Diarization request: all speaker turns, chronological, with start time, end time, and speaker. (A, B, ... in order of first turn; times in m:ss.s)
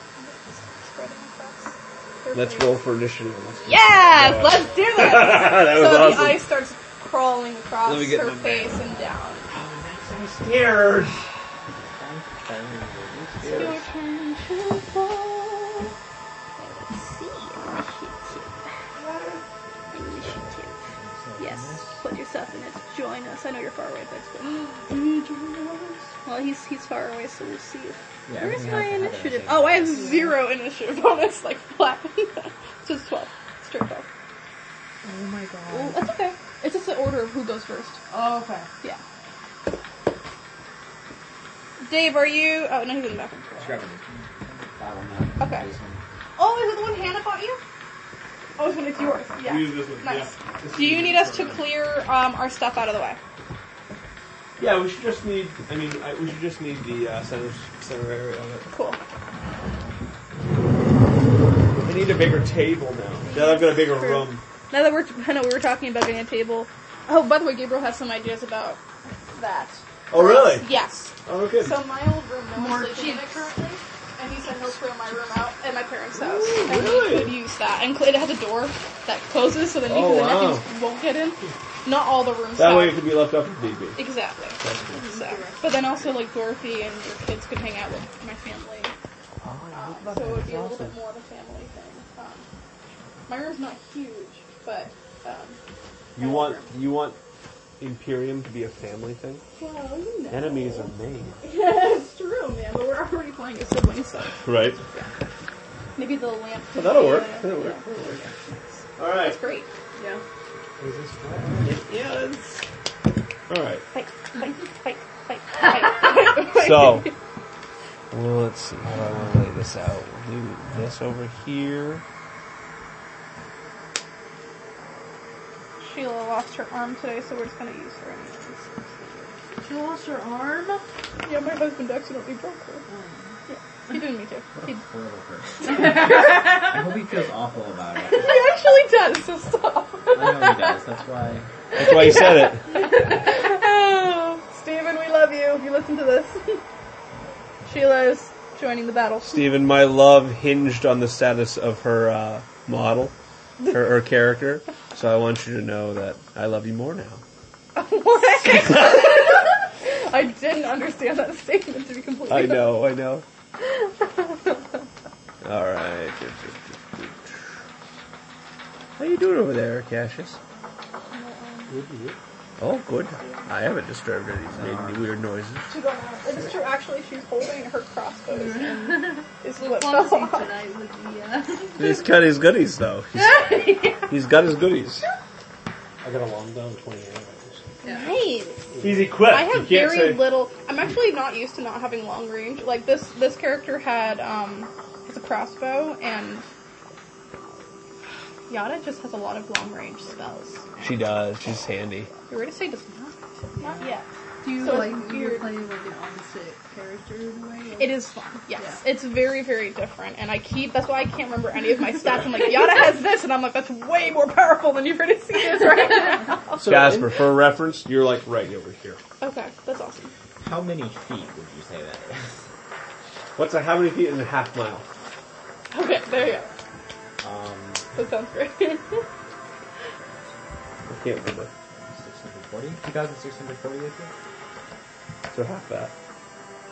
0:00.2-0:02.8 A
0:02.3-0:06.4 B
0:03.6-0:09.5 A
0:07.8-0:11.3 B
0:11.9-0:13.8 C
0:13.3-0:13.9 B
0:13.4-0:15.9 A
0:16.6-0:18.7 A
0:19.0-0:19.4 B
0:19.7-0:22.0 C
0:19.9-0:20.8 A
0:21.4-0:34.1 A
0:28.3-0:30.1 C
0:29.9-0:30.4 D
0:35.0-0:36.0 D
0:35.7-0:38.0 A
0:38.1-0:38.7 D
0:41.8-0:43.8 A
0:43.6-0:46.0 C
0:45.4-0:45.7 A
0:46.4-0:47.6 A
0:48.6-0:53.2 A
0:49.4-0:51.7 B
0:54.6-0:58.7 B
0:58.7-0:59.0 A
1:01.8-1:04.4 B
1:03.3-1:13.6 A
1:10.1-1:10.7 B
1:11.2-1:11.8 B
1:12.6-1:13.8 D
1:14.2-1:23.2 A
1:16.2-1:17.4 B
1:19.8-1:20.6 B
1:22.6-1:24.0 B
1:24.0-1:28.9 A
1:24.6-1:25.0 B
1:24.9-1:26.0 D
1:29.4-1:31.0 B
1:29.7-1:32.5 A
1:33.3-1:35.6 A
1:36.2-1:36.7 A
1:36.2-1:37.2 B
1:37.8-1:39.4 B
1:39.6-1:40.9 A
1:40.3-1:41.4 B
1:41.4-1:45.1 A
1:44.4-1:44.8 B
1:46.0-1:49.7 A
1:46.7-1:48.3 B
1:49.0-1:49.4 B
1:50.0-1:50.2 D
1:50.8-1:51.8 C
1:51.6-1:52.6 B
1:53.5-1:53.8 B
1:53.9-1:57.1 A
1:56.5-1:57.1 B
1:58.1-2:02.0 B
2:05.8-2:09.3 A
2:09.6-2:10.8 D
2:11.2-2:12.9 A
2:12.9-2:13.4 D
2:13.5-2:14.8 A
2:14.6-2:18.3 C
2:15.7-2:16.6 D
2:18.1-2:20.8 A
2:20.1-2:21.5 C
2:21.7-2:22.7 B
2:21.8-2:26.6 A
2:27.6-2:29.5 A
2:29.2-2:33.1 B
2:33.7-2:37.2 B
2:37.8-2:42.8 A
2:38.5-2:38.9 B
2:42.3-2:43.2 B
2:43.6-2:44.6 A
2:45.4-2:47.5 B
2:49.0-2:50.4 B
2:51.1-2:51.8 A
2:51.7-2:52.2 E
2:52.6-2:55.7 B
2:53.2-2:53.5 A
2:54.6-2:55.0 C
2:55.7-3:00.5 A
2:58.3-3:02.0 D
3:01.8-3:05.1 B
3:03.2-3:04.1 D
3:06.0-3:07.6 E
3:07.8-3:08.1 D
3:07.8-3:08.6 A
3:08.7-3:09.1 E
3:08.8-3:10.3 B
3:09.2-3:16.5 A
3:18.5-3:20.7 A
3:20.8-3:22.1 B
3:22.3-3:25.5 A
3:23.5-3:28.8 D
3:27.8-3:36.6 A
3:36.5-3:37.1 E
3:36.6-3:39.0 B
3:39.2-3:40.1 A
3:40.4-3:42.4 C
3:43.4-3:44.9 B
3:45.7-3:46.5 A
3:47.2-3:47.9 C
3:48.0-3:49.0 A
3:49.9-3:50.5 C
3:50.9-3:51.5 B
3:51.7-3:54.1 C
3:55.3-3:55.9 B